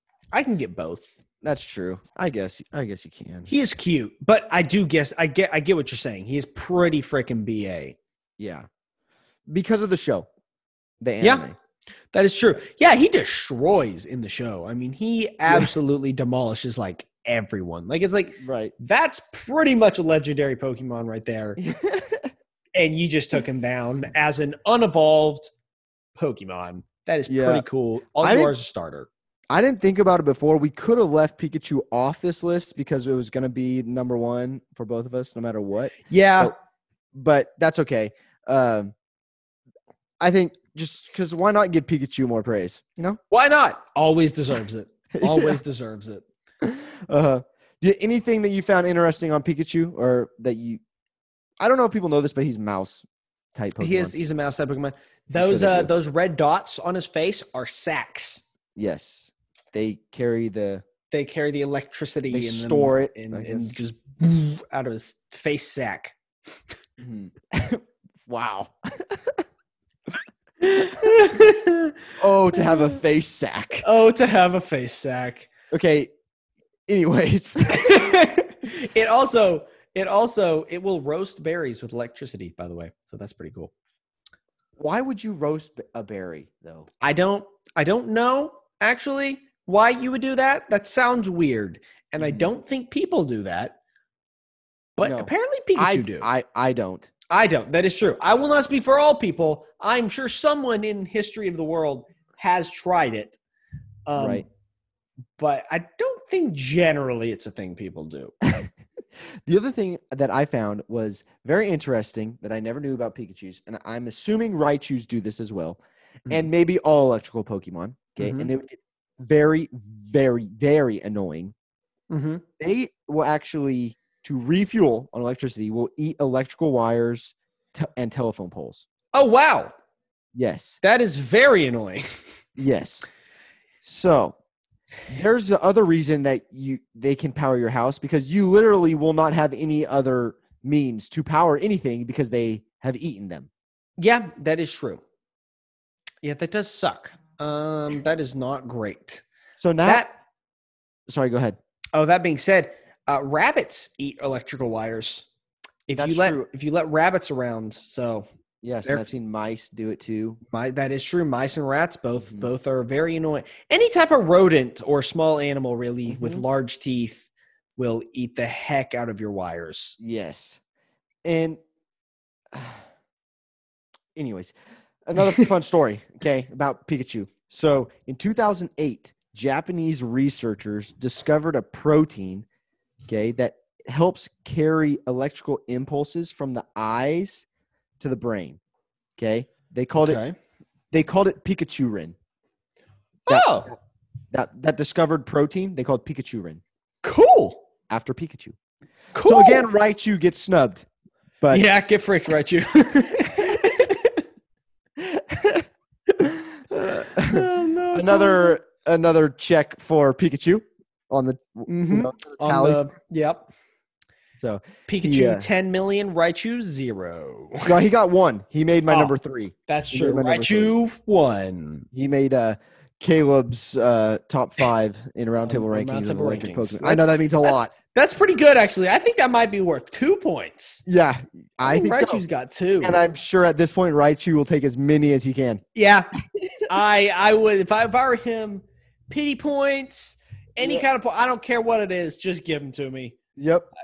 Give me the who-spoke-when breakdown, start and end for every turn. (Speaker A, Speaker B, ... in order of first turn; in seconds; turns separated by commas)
Speaker A: 0.3-1.1, Speaker B: 1.4-3.5, Speaker A: 3.5-8.0, Speaker B: 8.4-8.7, Speaker B: 9.5-10.3, Speaker B: 11.0-11.5, Speaker A: 11.2-11.5, Speaker A: 12.1-21.6, Speaker B: 18.4-18.7, Speaker B: 21.6-22.3, Speaker A: 22.7-25.5, Speaker A: 26.1-29.1, Speaker B: 27.3-27.6, Speaker B: 28.2-28.5, Speaker B: 29.5-36.5, Speaker A: 36.1-36.5, Speaker B: 37.1-38.9, Speaker B: 40.2-43.2, Speaker A: 43.3-46.2, Speaker B: 45.1-45.6, Speaker B: 46.6-50.8, Speaker B: 51.6-54.1, Speaker A: 53.8-58.4, Speaker B: 55.3-55.9, Speaker B: 58.8-60.8, Speaker A: 61.1-66.2, Speaker B: 62.3-63.7, Speaker B: 67.0-69.4, Speaker A: 70.6-72.0, Speaker B: 72.2-73.8, Speaker A: 73.8-75.5, Speaker B: 75.7-76.1, Speaker B: 76.9-78.1, Speaker A: 77.7-83.7, Speaker B: 84.8-86.9, Speaker A: 87.0-93.8, Speaker B: 92.2-92.5, Speaker A: 95.0-96.3, Speaker B: 95.0-97.1, Speaker A: 97.3-103.4, Speaker A: 104.1-104.5, Speaker B: 104.2-104.4, Speaker A: 105.4-108.3, Speaker B: 108.4-108.7, Speaker B: 109.5-121.5, Speaker A: 118.2-118.5, Speaker A: 122.1-122.4, Speaker B: 122.6-128.8, Speaker A: 129.1-129.7, Speaker B: 130.3-130.8, Speaker A: 130.8-132.1, Speaker B: 132.6-133.1, Speaker B: 133.8-134.3, Speaker B: 135.1-143.5, Speaker A: 144.0-145.0, Speaker A: 146.2-149.2, Speaker B: 149.6-150.1, Speaker A: 149.8-150.1, Speaker B: 151.1-151.6, Speaker A: 151.9-155.3, Speaker A: 155.9-158.3, Speaker B: 155.9-156.5, Speaker B: 158.6-160.4, Speaker A: 160.5-170.0, Speaker B: 166.1-166.4, Speaker B: 170.0-170.6, Speaker B: 171.2-171.6, Speaker B: 172.5-172.8, Speaker B: 174.1-174.5, Speaker B: 175.0-182.4, Speaker B: 183.1-187.4, Speaker B: 188.0-188.6, Speaker B: 189.2-190.2, Speaker A: 190.0-190.3, Speaker B: 190.9-192.1, Speaker A: 193.3-193.7, Speaker B: 193.3-193.8, Speaker B: 194.3-196.6, Speaker A: 197.0-197.6, Speaker B: 197.9-198.6, Speaker A: 199.1-199.6, Speaker B: 199.2-200.8, Speaker A: 201.5-204.2, Speaker B: 205.0-205.7, Speaker B: 206.2-212.8, Speaker A: 206.8-208.6, Speaker A: 211.7-213.5, Speaker B: 214.4-215.5, Speaker A: 214.9-217.7, Speaker B: 217.6-220.8, Speaker A: 218.9-221.9, Speaker B: 221.9-227.7, Speaker A: 225.4-230.8, Speaker B: 230.8-232.2, Speaker A: 231.6-233.0, Speaker B: 232.8-235.6, Speaker A: 235.7-236.1, Speaker B: 236.4-236.6, Speaker A: 236.7-243.2, Speaker B: 243.4-243.7